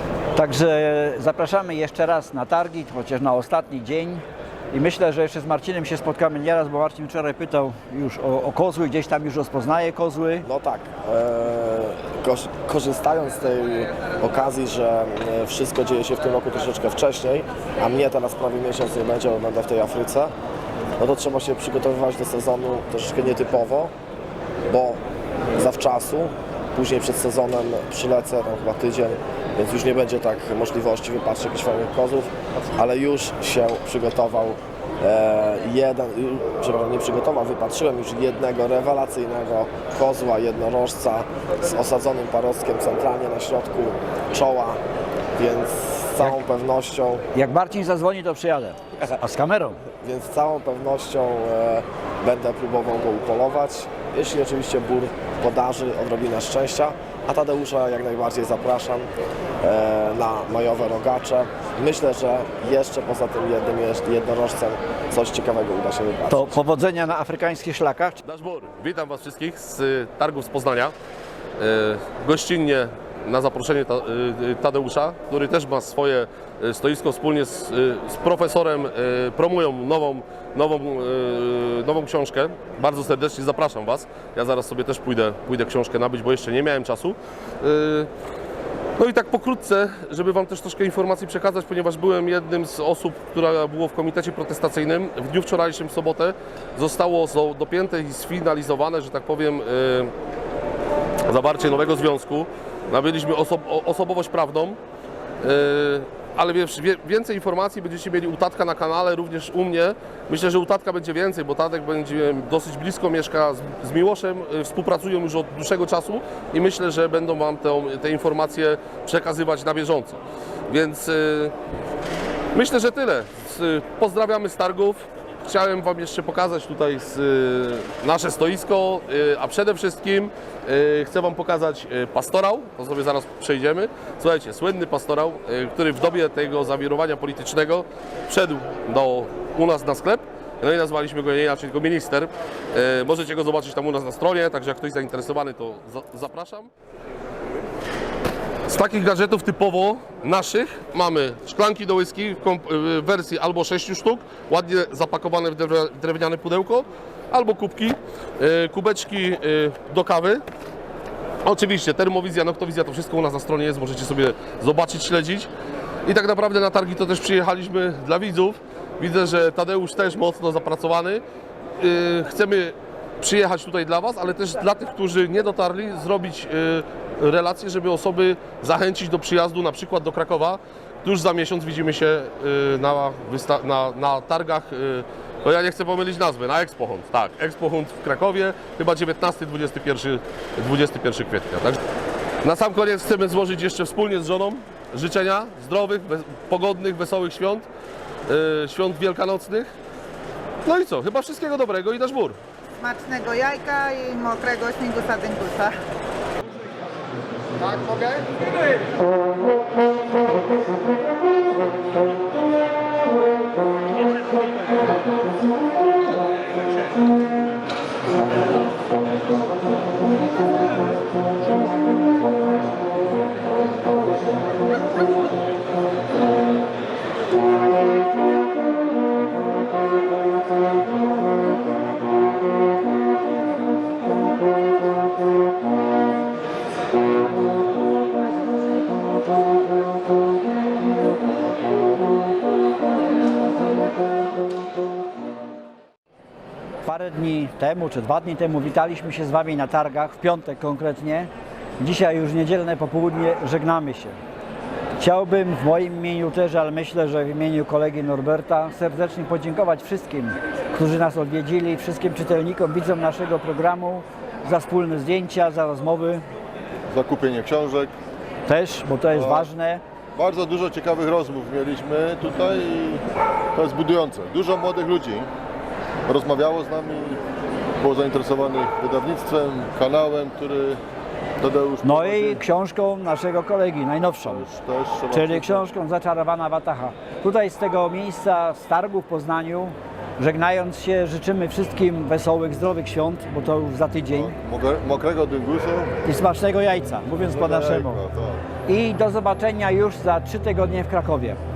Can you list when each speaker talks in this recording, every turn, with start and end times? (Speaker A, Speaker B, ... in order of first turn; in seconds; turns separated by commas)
Speaker A: 0.3-10.5, Speaker B: 10.4-20.3, Speaker B: 21.0-23.9, Speaker B: 24.7-25.0, Speaker B: 25.5-44.8, Speaker B: 45.4-47.2, Speaker A: 47.3-49.8, Speaker B: 50.0-59.1, Speaker B: 59.6-66.5, Speaker A: 66.3-68.2, Speaker C: 68.2-70.9, Speaker C: 71.6-88.1, Speaker C: 89.0-100.1, Speaker C: 101.2-104.8, Speaker C: 105.4-121.5, Speaker C: 122.5-146.7, Speaker C: 148.7-160.4, Speaker C: 161.4-165.5, Speaker C: 166.1-171.2, Speaker C: 171.8-191.8, Speaker C: 192.4-197.7, Speaker C: 198.3-199.7, Speaker C: 200.6-202.4, Speaker D: 202.8-205.7, Speaker A: 246.8-254.2, Speaker A: 255.0-266.2, Speaker E: 266.9-267.9, Speaker A: 268.5-269.8, Speaker E: 269.1-269.5, Speaker E: 270.1-273.0, Speaker E: 273.5-275.3, Speaker E: 276.1-277.2, Speaker E: 277.8-280.8, Speaker E: 281.4-282.4, Speaker A: 281.8-284.4, Speaker E: 284.2-285.7, Speaker A: 285.1-294.3, Speaker E: 294.1-296.0, Speaker A: 296.0-298.0, Speaker E: 297.3-298.4, Speaker A: 298.7-301.4